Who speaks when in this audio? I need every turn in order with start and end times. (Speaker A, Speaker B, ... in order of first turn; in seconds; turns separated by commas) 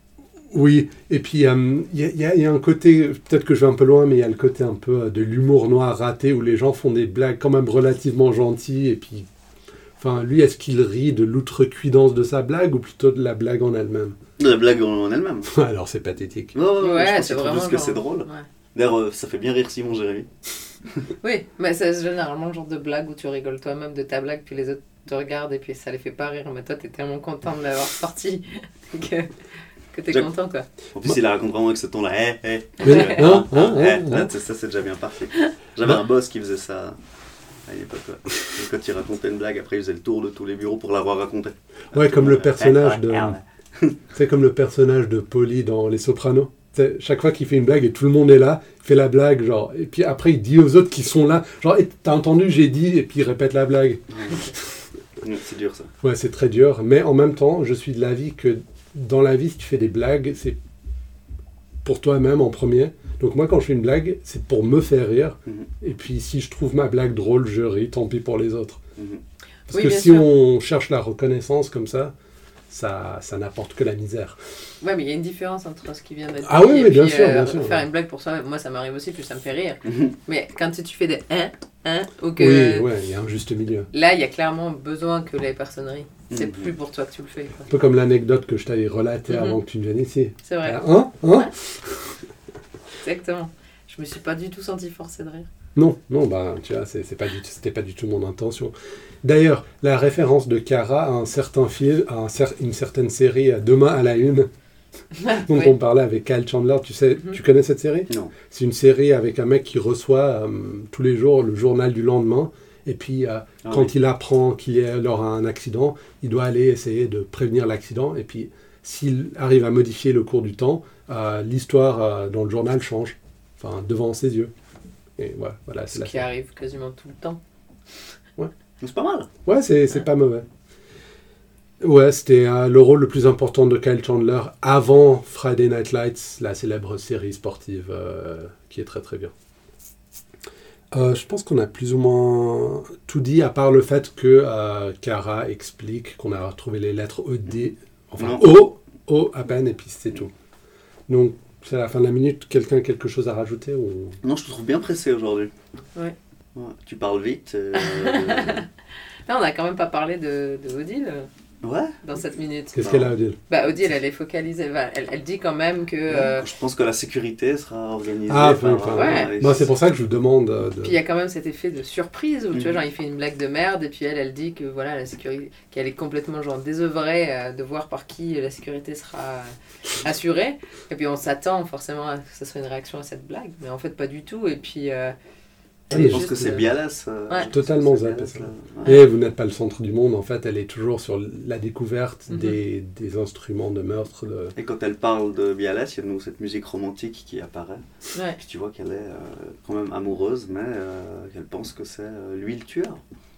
Speaker A: 0.5-9.3, Speaker A: 10.0-14.2, Speaker B: 14.4-15.5, Speaker A: 15.5-16.6, Speaker B: 16.5-20.3, Speaker C: 16.8-18.4, Speaker C: 21.2-29.3, Speaker C: 29.9-30.7, Speaker B: 30.9-37.0, Speaker C: 32.8-33.2, Speaker A: 32.8-34.3, Speaker B: 37.6-44.0, Speaker A: 41.9-43.4, Speaker A: 44.1-54.6, Speaker B: 54.1-54.4, Speaker B: 55.2-55.9, Speaker A: 56.0-60.6, Speaker A: 61.8-68.8, Speaker B: 69.0-69.2, Speaker A: 69.7-72.1, Speaker C: 69.7-70.3, Speaker A: 72.7-74.4, Speaker C: 74.8-82.9, Speaker A: 76.4-77.8, Speaker B: 79.8-80.1, Speaker A: 82.4-83.9, Speaker C: 83.9-87.7, Speaker B: 86.3-86.7, Speaker A: 87.7-92.1, Speaker C: 89.3-89.6, Speaker C: 90.4-91.5, Speaker C: 93.0-95.5, Speaker A: 95.8-104.5, Speaker C: 105.1-105.7, Speaker A: 105.3-124.5, Speaker B: 108.1-108.3, Speaker B: 113.6-113.9, Speaker A: 125.2-126.2, Speaker C: 125.9-127.4, Speaker B: 128.8-129.3, Speaker A: 129.4-130.4, Speaker A: 131.8-139.3, Speaker A: 140.9-150.3, Speaker B: 147.5-148.6, Speaker A: 151.1-154.2, Speaker B: 154.2-155.5, Speaker B: 156.5-158.6, Speaker C: 157.7-158.7, Speaker C: 159.2-161.3, Speaker B: 161.6-161.9, Speaker C: 162.0-162.9, Speaker A: 162.7-163.4, Speaker B: 162.8-163.1, Speaker C: 163.5-166.5, Speaker B: 166.1-169.7, Speaker A: 168.3-171.0, Speaker C: 168.9-169.3, Speaker C: 170.8-185.1, Speaker B: 172.5-172.8, Speaker C: 185.9-186.7, Speaker A: 185.9-186.7, Speaker B: 185.9-189.0, Speaker A: 187.5-194.5, Speaker C: 192.3-192.6, Speaker B: 194.6-197.8, Speaker C: 198.1-198.4, Speaker B: 198.4-203.0